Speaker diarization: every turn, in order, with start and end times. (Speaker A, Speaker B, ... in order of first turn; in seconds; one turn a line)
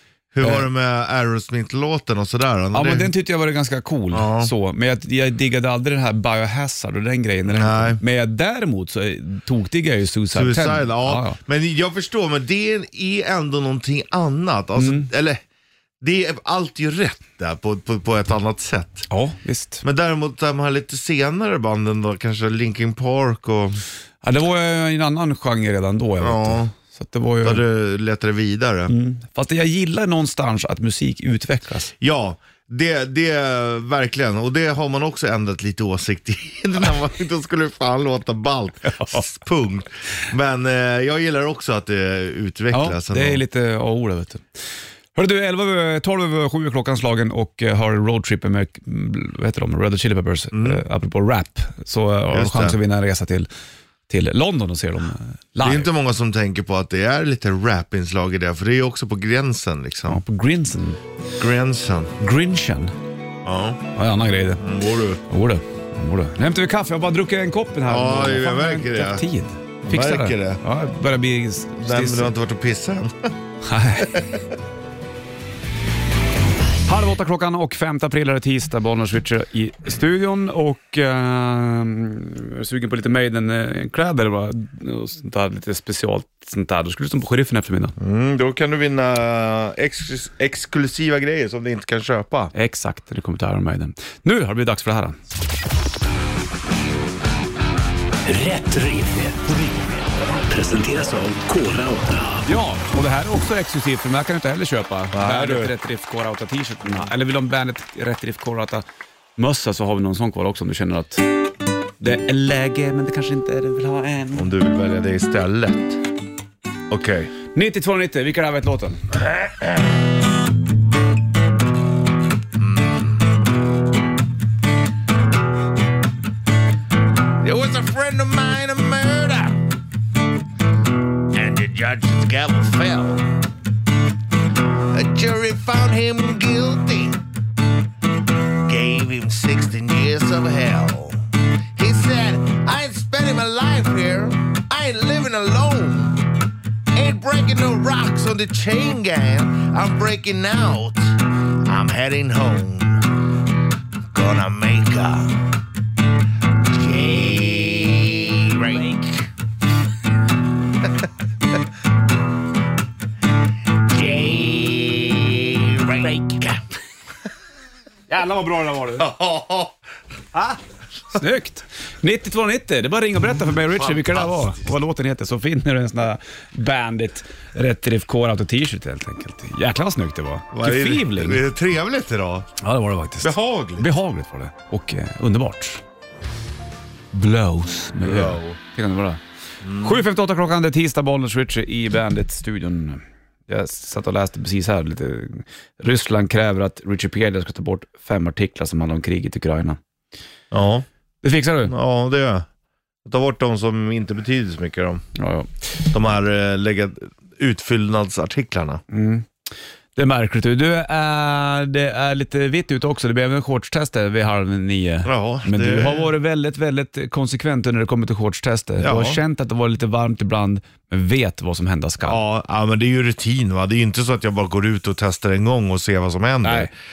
Speaker A: 0.3-3.1
Speaker B: 2.7-11.4
Speaker A: 4.1-4.5
Speaker A: 7.5-8.0
Speaker A: 10.3-15.4
Speaker B: 14.8-15.1
Speaker A: 16.0-19.1
Speaker B: 19.1-19.8
Speaker A: 19.8-23.8
Speaker B: 24.2-27.6
Speaker A: 26.2-26.7
Speaker A: 27.4-28.9
Speaker B: 28.9-31.9
Speaker A: 32.0-43.4
Speaker B: 42.7-44.5
Speaker B: 45.1-53.5
Speaker A: 50.5-50.8
Speaker A: 52.3-52.8
Speaker B: 54.1-55.9
Speaker A: 55.6-60.2
Speaker B: 60.1-61.0
Speaker A: 61.4-62.1
Speaker B: 62.2-62.9
Speaker A: 63.4-63.8
Speaker B: 63.9-64.7
Speaker A: 64.6-65.2
Speaker B: 65.2-72.3
Speaker A: 67.8-69.2
Speaker A: 69.8-70.6
Speaker A: 71.8-73.3
Speaker B: 73.6-74.2
Speaker A: 74.0-74.3
Speaker B: 76.8-87.9
Speaker A: 88.0-92.5
Speaker B: 92.5-95.2
Speaker C: 98.2-102.5
Speaker B: 102.4-108.8
Speaker A: 105.1-105.7
Speaker B: 109.4-111.2
Speaker B: 112.0-114.5
Speaker A: 114.3-116.0
Speaker A: 116.9-117.3
Speaker B: 117.5-119.1
Speaker A: 122.5-123.2
Speaker A: 127.4-129.7
Speaker A: 131.3-133.4
Speaker A: 134.9-137.2
Speaker A: 138.5-141.2
Speaker A: 141.7-146.3
Speaker A: 146.9-153.2
Speaker A: 154.1-155.5
Speaker A: 156.6-159.3
Speaker A: 163.8-166.7
Speaker B: 168.1-169.1
Speaker A: 169.0-169.8
Speaker B: 171.1-181.4
Speaker A: 173.7-174.3
Speaker A: 180.5-182.5
Speaker B: 182.6-185.8
Speaker A: 183.2-183.9
Speaker B: 187.1-189.2
Speaker A: 188.0-188.6
Speaker A: 189.6-190.0
Speaker B: 189.8-199.8
Speaker A: 200.5-200.8
Speaker B: 201.2-201.7
Speaker A: 201.7-202.4
Speaker A: 203.0-205.0
Speaker B: 205.1-205.9
Speaker A: 205.9-208.8
Speaker B: 208.9-209.3
Speaker B: 209.9-222.2
Speaker A: 215.0-216.1
Speaker A: 218.8-219.2
Speaker A: 222.0-226.7
Speaker B: 226.4-226.7